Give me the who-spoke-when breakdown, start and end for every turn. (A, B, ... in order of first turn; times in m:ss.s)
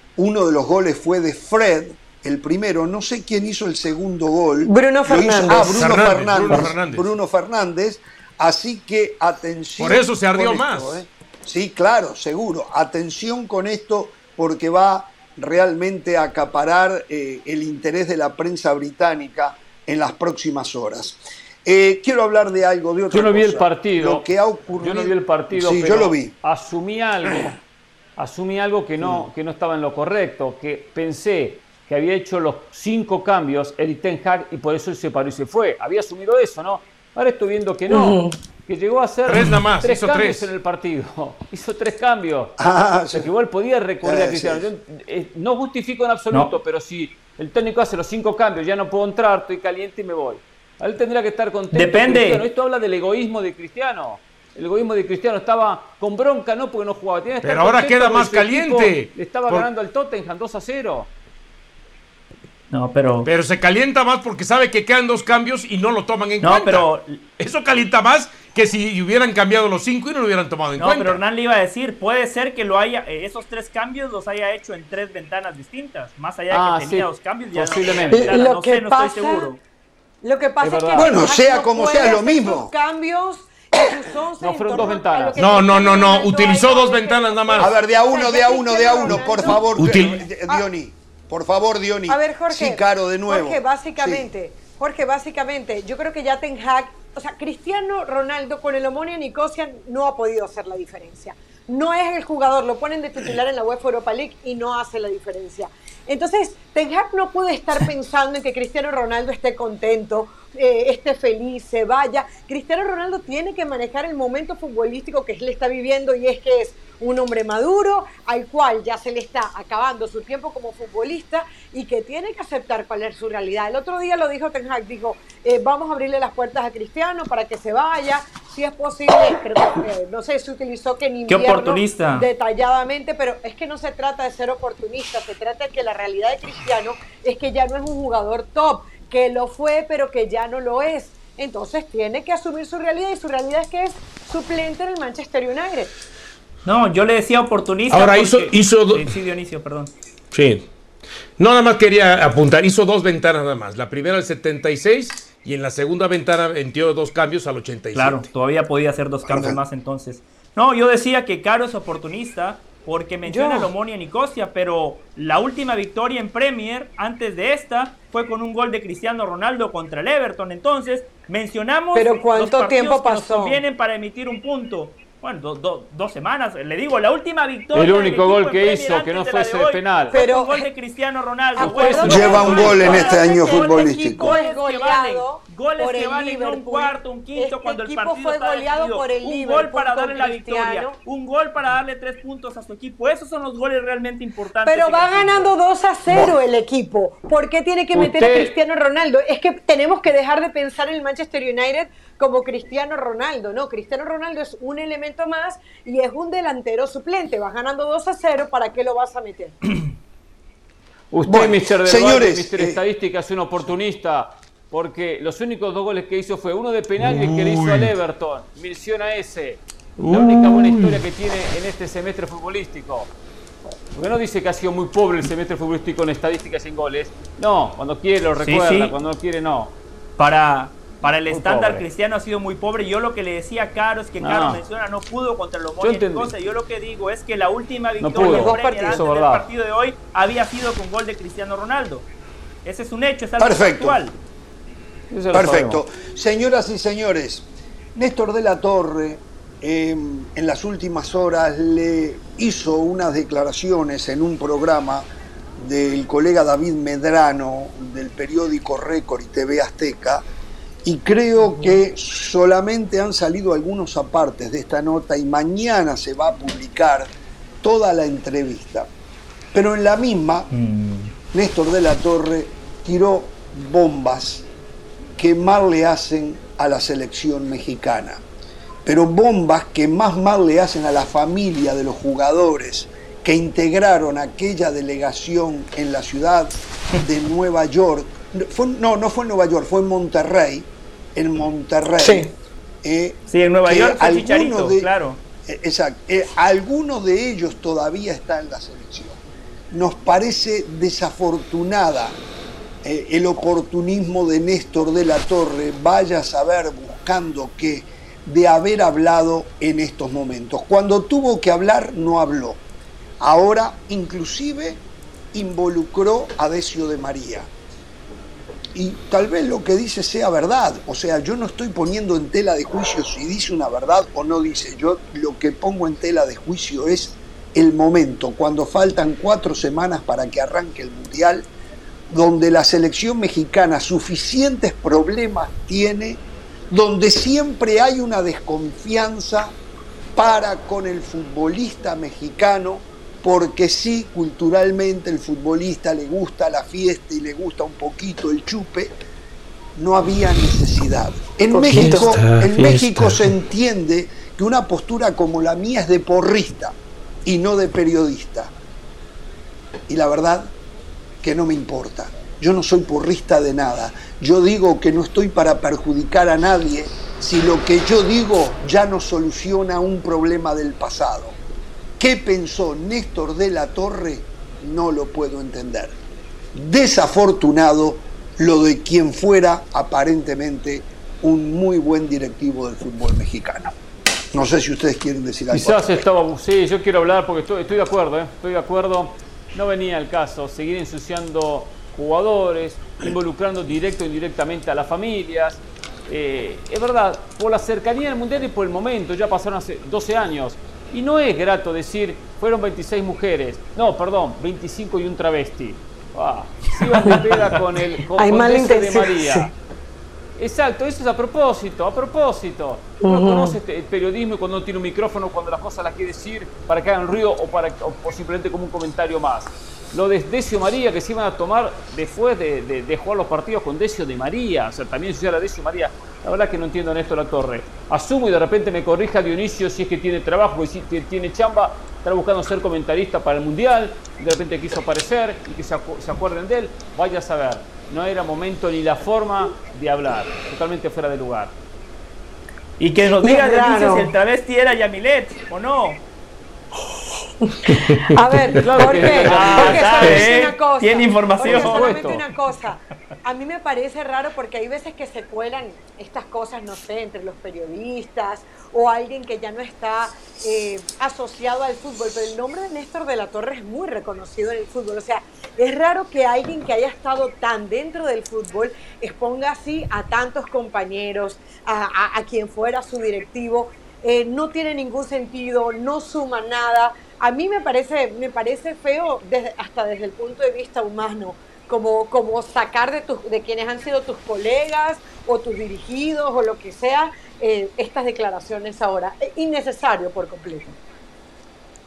0:00.2-0:26.3 A
0:04.6-0:05.9 B
0:05.5-0:07.1 C
0:09.8-0:11.0 C
0:23.1-0:24.3 D
0:24.8-0:27.5 D
0:28.2-0:42.6 D
0:37.9-0:38.4 B
0:39.2-0:40.5 C
0:42.6-0:43.3 A
0:43.1-1:01.1 D
0:44.0-0:44.7 A
0:51.7-0:52.4 E
0:57.4-0:59.7 C
1:02.7-1:03.3 E
1:03.2-1:06.9 C
1:06.4-1:07.2 E
1:07.4-1:11.2 C
1:10.8-1:19.6 E
1:16.5-1:18.4 D
1:18.1-1:19.5 B
1:20.2-1:29.7 B
1:20.6-1:21.2 D
1:20.9-1:22.7 A
1:24.4-1:25.4 D
1:25.4-1:27.7 C
1:27.6-1:34.3 A
1:29.1-1:30.2 C
1:32.1-2:25.9 B
2:11.3-2:12.3 E
2:26.6-2:29.9 E
2:27.9-2:29.1 C
2:30.3-2:30.6 C
2:31.4-2:38.2 C
2:37.9-3:15.5 E
2:39.2-2:39.6 A
2:43.2-2:43.7 B
2:51.9-2:53.6 B
2:57.7-3:00.2 D
3:00.1-3:00.7 B
3:01.6-3:11.0 B
3:01.6-3:03.0 D
3:02.0-3:04.4 A
3:14.6-3:29.6 B
3:17.9-3:18.5 D
3:31.1-3:43.1 D
3:31.2-3:32.8 A
3:37.0-3:37.9 C
3:40.0-3:41.0 C
3:43.9-3:49.7 D
3:48.4-3:48.9 E
3:50.2-4:02.1 E
3:51.3-3:51.8 D
3:54.2-3:54.6 D
3:55.8-3:56.3 D
3:58.0-3:59.5 D
3:58.2-3:59.0 B
4:02.6-4:04.2 E
4:03.4-4:04.0 A
4:05.1-4:05.8 D
4:05.3-4:20.2 A
4:20.8-4:27.1 A
4:27.6-4:28.9 A
4:29.5-4:30.5 A
4:30.5-4:31.1 E
4:31.3-4:34.4 A
4:35.2-4:38.2 A
4:38.8-4:52.3 A
4:52.0-4:52.3 B
4:52.8-4:54.9 A
4:53.3-4:55.2 E
4:55.4-4:59.2 A
4:59.7-5:02.2 A
5:02.8-5:12.6 A
5:13.2-5:14.8 A
5:15.3-5:17.5 A
5:18.7-5:31.5 A
5:32.1-5:39.6 A
5:40.1-5:48.9 A
5:49.7-5:58.5 A
5:51.5-5:52.2 B
5:51.7-5:53.3 C
5:59.9-6:00.5 A
6:01.2-6:11.4 A
6:12.0-6:16.0 A
6:16.5-6:23.8 A
6:24.3-6:26.0 A
6:25.5-6:49.5 D
6:48.2-6:49.5 B
6:50.4-7:21.6 D
6:53.0-6:53.6 B
7:22.8-7:26.0 E
7:23.2-7:24.1 B
7:27.4-8:10.7 B
7:27.8-7:28.1 C
7:28.5-7:30.2 D
7:29.1-7:32.1 E
7:31.4-7:32.2 D